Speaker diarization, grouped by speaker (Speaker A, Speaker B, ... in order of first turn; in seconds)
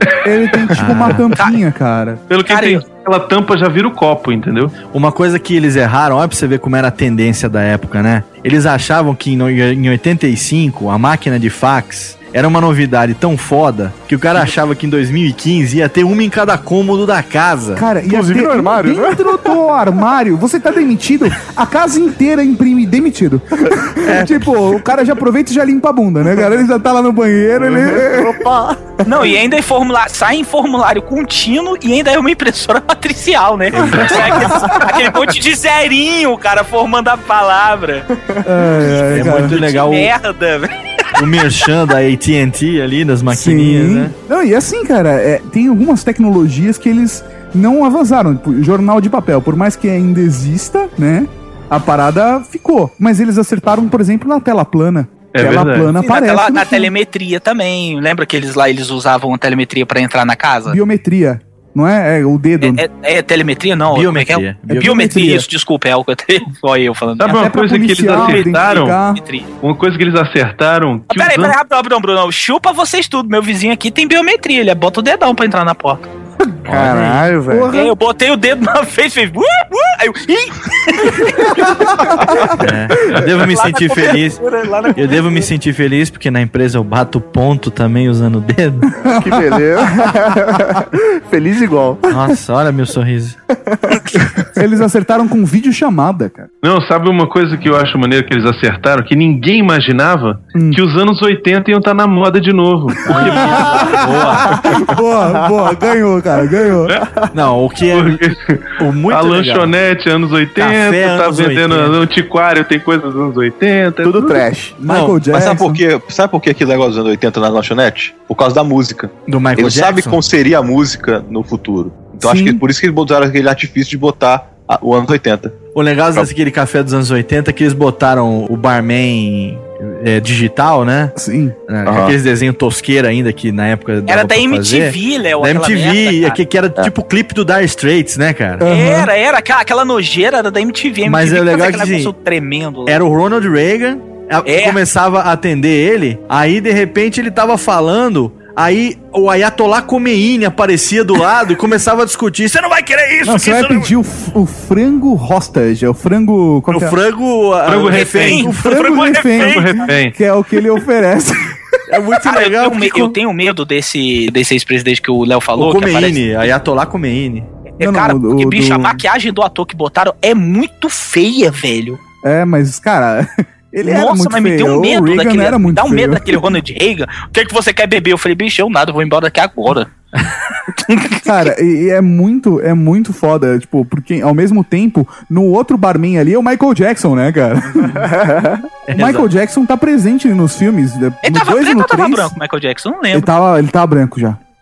Speaker A: 0.2-2.2, 17.8-28.4, 38.4-39.6, 43.3-56.9, 60.7-62.8, 64.7-65.5, 67.3-69.2, 77.5-77.9, 89.0-90.1, 94.5-96.5, 103.1-106.9, 114.8-115.8, 122.2-122.6, 131.2-131.6, 138.6-139.1, 153.2-156.9, 158.5-161.6, 167.8-169.0, 172.2-176.4, 181.2-188.1, 188.9-192.3, 193.1-194.4
Speaker B: 0.7-1.4, 4.9-17.9, 24.0-24.5, 33.7-34.6, 39.0-40.1, 41.1-44.1, 63.9-64.9, 76.7-77.3, 82.6-84.4, 84.9-88.9, 92.1-93.4, 103.1-104.8, 107.3-108.2, 108.8-109.7, 110.6-112.0, 114.8-115.2, 119.3-120.2, 125.7-131.1, 131.7-138.6, 141.0-142.1, 142.8-153.9, 156.7-159.0, 161.9-163.2, 165.6-167.5, 188.9-189.3
Speaker C: 2.3-4.7, 55.3-55.9, 67.2-69.0, 69.6-71.5, 96.6-104.2, 107.9-114.4, 157.7-158.5, 159.4-160.1
Speaker D: 2.5-2.8, 29.0-38.1, 39.3-41.1, 56.0-60.8, 62.6-67.5, 68.1-69.5, 71.1-76.1, 77.7-81.8, 83.2-85.5, 134.1-136.4, 138.6-143.0, 144.4-144.8, 157.9-159.9, 162.2-166.4, 167.8-172.0, 173.8-179.9, 180.8-181.2, 191.2-193.3
Speaker E: 18.0-19.6, 27.6-28.9, 38.3-38.6, 76.6-77.7, 89.2-92.2, 93.7-94.4, 105.4-105.9, 114.0-114.8, 188.0-188.6
Speaker F: 115.3-125.5